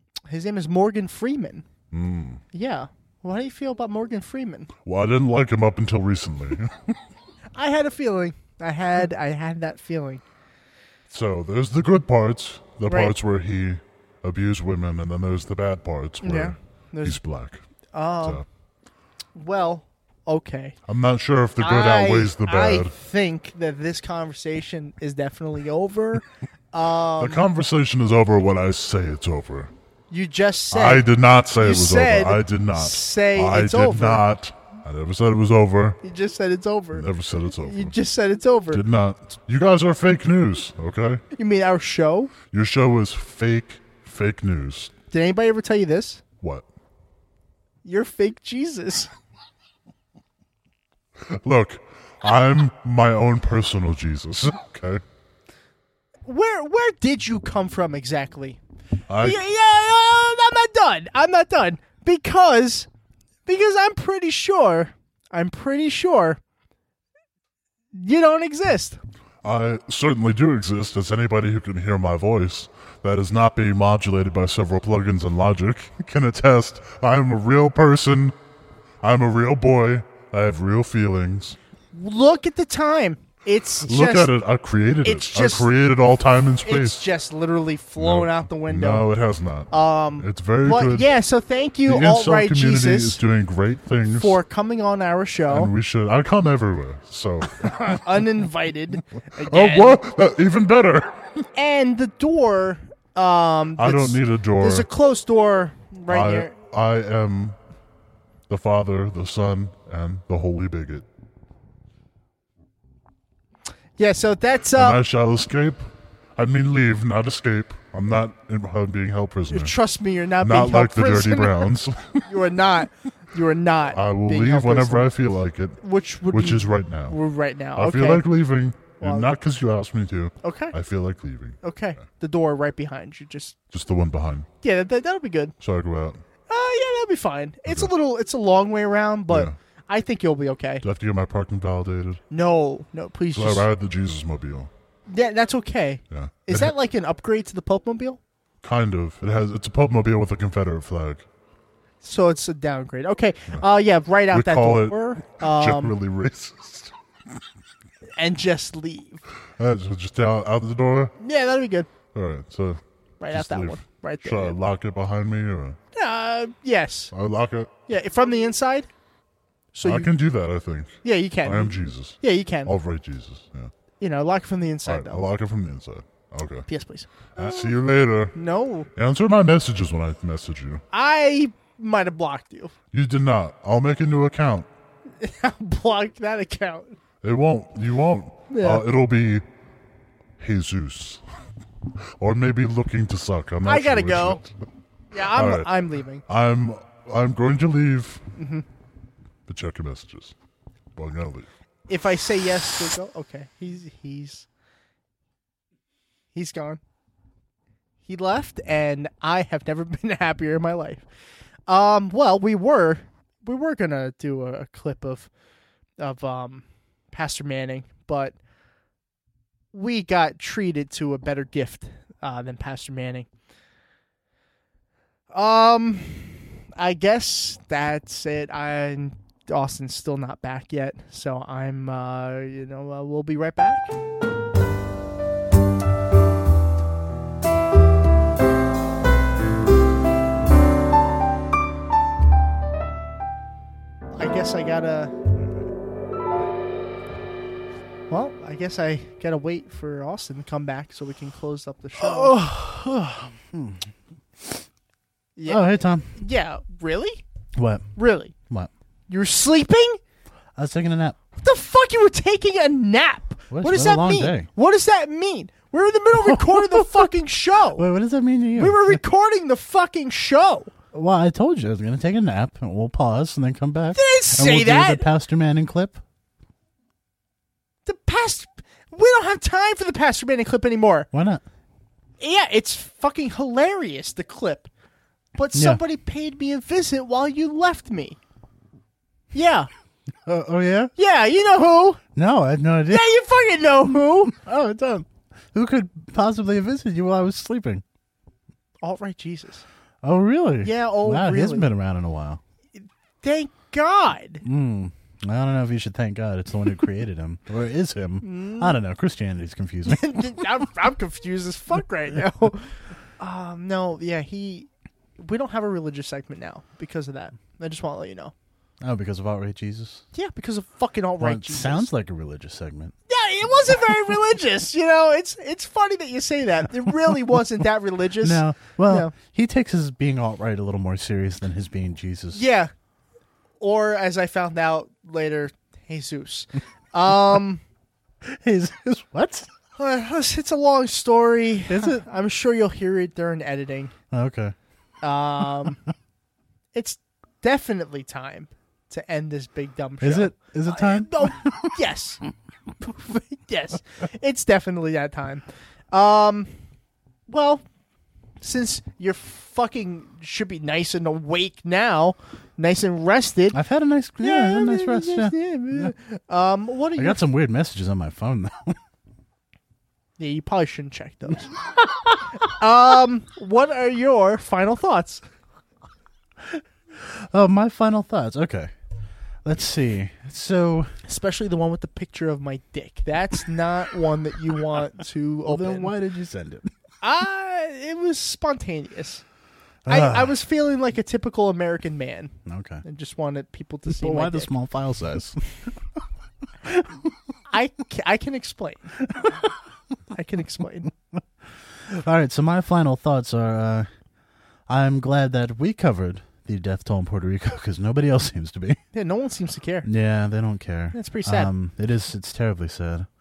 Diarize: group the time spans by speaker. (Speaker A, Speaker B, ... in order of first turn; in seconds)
Speaker A: 0.3-1.6, 2.5-4.7, 7.6-10.2, 12.9-13.2, 16.2-17.2, 17.9-18.4, 19.4-20.8, 21.6-27.4, 30.1-31.1, 31.6-34.2, 36.0-37.1, 37.6-38.8, 41.4-42.3, 45.1-46.2, 47.8-49.1, 56.3-58.6, 59.2-62.9, 63.5-66.4, 68.0-69.0, 81.9-84.3, 85.0-85.7, 86.7-89.1, 89.7-93.2, 94.1-95.7, 97.7-100.0, 101.5-106.5, 114.0-115.0, 119.5-121.7, 122.2-125.1, 125.8-128.2, 129.0-129.3, 130.4-130.7, 131.6-133.6, 134.6-135.5, 136.5-140.8, 142.3-143.7, 145.1-148.2, 152.0-155.9, 158.2-159.2, 161.2-161.9, 163.2-164.6, 165.9-167.1, 167.9-168.9, 169.7-170.1, 171.0-172.7, 174.0-175.3, 176.7-177.1, 178.3-178.9, 180.9-182.7, 185.2-187.0, 188.5-188.9, 193.7-194.4, 195.1-196.2, 198.4-198.7, 201.9-204.5, 206.3-206.8, 208.1-211.0, 211.7-215.3, 216.0-218.4, 219.7-223.3, 225.3-233.9, 244.1-245.1, 248.1-252.4, 255.4-257.2, 258.0-258.3, 259.1-260.0, 261.4-267.9, 268.6-270.7, 273.9-275.1, 277.9-281.1, 282.2-284.7, 285.4-288.2, 289.3-289.7, 291.0-292.0, 292.9-294.3, 298.8-299.6, 300.6-301.7, 303.2-304.4, 308.2-308.8, 309.9-318.3, 320.1-321.9, 323.1-329.1, 332.3-332.7, 333.6-337.6, 339.8-343.9, 345.0-345.8, 346.7-352.2, 352.8-356.5, 357.3-357.6, 358.4-363.6, 364.2-367.2, 370.2-371.6, 372.4-375.2, 381.1-385.9, 387.0-389.2, 389.9-394.5, 397.5-398.9, 400.1-400.9, 408.9-409.9, 410.9-411.5
Speaker B: 1.9-2.4, 4.8-6.9, 11.1-17.6, 20.9-22.9, 27.2-29.7, 30.7-36.0, 36.9-38.0, 38.7-41.2, 42.4-44.9, 51.3-55.0, 59.1-59.4, 69.4-78.3, 79.0-81.6, 83.9-87.1, 88.0-91.2, 91.9-94.4, 95.5-98.2, 99.5-101.2, 103.8-104.9, 106.1-107.6, 108.5-111.0, 114.7-119.8, 120.4-122.2, 123.9-127.2, 127.8-132.0, 133.7-134.5, 135.6-136.2, 137.7-137.9, 139.3-139.6, 140.8-142.2, 143.3-144.7, 146.1-146.7, 148.6-151.3, 154.3-156.9, 159.6-161.1, 162.1-165.8, 167.1-167.7, 169.8-173.7, 174.9-176.7, 177.4-178.4, 178.9-180.8, 182.9-184.7, 187.2-189.4, 190.4-191.2, 192.2-194.5, 195.3-198.2, 199.5-200.3, 201.0-201.5
Speaker C: 252.0-253.9, 255.5-256.1, 257.6-258.7, 260.6-261.2, 263.5-264.5, 266.2-267.1, 267.7-269.0, 270.9-276.0, 281.1-281.4, 285.5-285.8, 290.2-290.9, 292.2-293.1, 294.2-297.8, 300.0-302.4, 304.4-310.5, 318.8-320.1, 321.2-322.9, 328.2-332.4, 338.2-339.5, 341.7-342.0, 344.1-344.6, 350.0-351.7, 363.5-365.9, 367.0-368.8, 377.0-378.7, 379.4-380.9, 385.5-386.7, 389.9-390.3, 392.5-392.8, 393.9-395.7, 396.7-397.0, 401.9-403.9, 404.7-408.8, 409.8-413.1